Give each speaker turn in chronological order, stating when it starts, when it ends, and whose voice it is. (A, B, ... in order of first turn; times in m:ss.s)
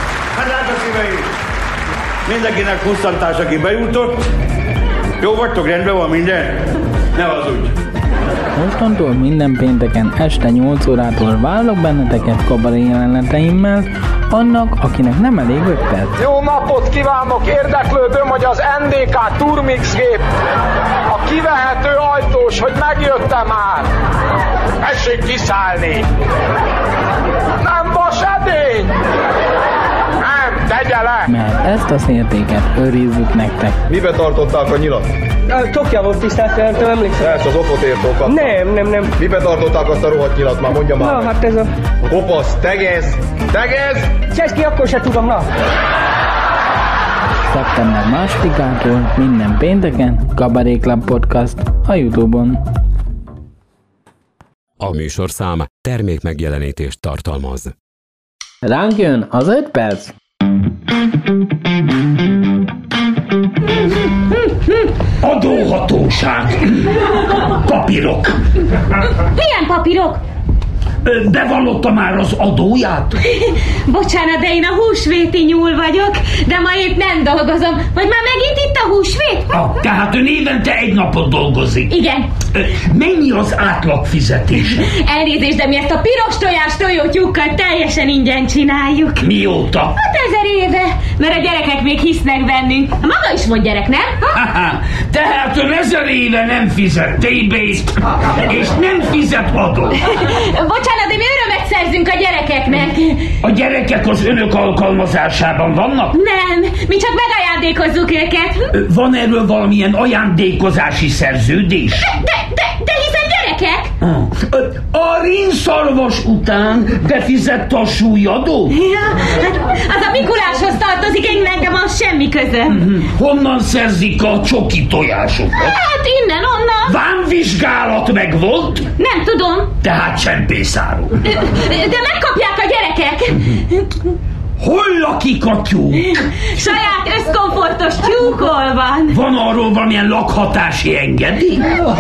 0:00.4-0:01.2 A
0:02.3-0:04.2 A
0:05.2-0:06.6 A
0:07.1-0:07.7 A
0:08.6-0:16.2 B
0:16.2-0:20.2 C
0:21.1-0:23.9 C
0:24.8-0:26.0 C
0:27.6-0:28.9 C
0:30.2-0:31.2 C
0:31.3-0:33.8 B
0:33.9-0:35.1 D
0:35.5-0:37.1 E
0:37.1-0:38.6 D
0:38.3-0:39.0 E
0:39.1-0:41.4 D
0:41.0-0:41.7 E
0:42.0-0:44.1 D
0:44.3-0:45.4 E
0:47.5-0:52.6 B
0:54.8-0:57.7 F
0:58.6-1:00.1 B
1:05.2-1:08.4 G
1:09.3-1:10.2 H
1:11.0-1:13.2 G
1:13.3-1:19.6 H
1:19.5-1:21.9 G
1:21.9-1:22.3 H
1:22.5-1:24.8 G
1:24.9-1:29.3 H
1:29.2-1:29.9 G
1:30.0-1:34.3 H
1:34.3-1:40.0 G
1:40.1-1:43.3 H
1:43.4-1:46.2 G
1:46.1-1:48.7 H
1:48.7-1:52.1 G
1:52.1-1:53.9 H
1:54.0-1:58.8 G
1:58.7-2:02.8 H
2:02.7-2:05.8 G
2:05.6-2:07.0 H
2:06.9-2:08.9 G
2:09.0-2:09.7 H
2:09.8-2:11.1 G
2:11.2-2:13.9 H
2:14.6-2:16.2 G
2:16.2-2:19.2 H
2:19.1-2:21.8 G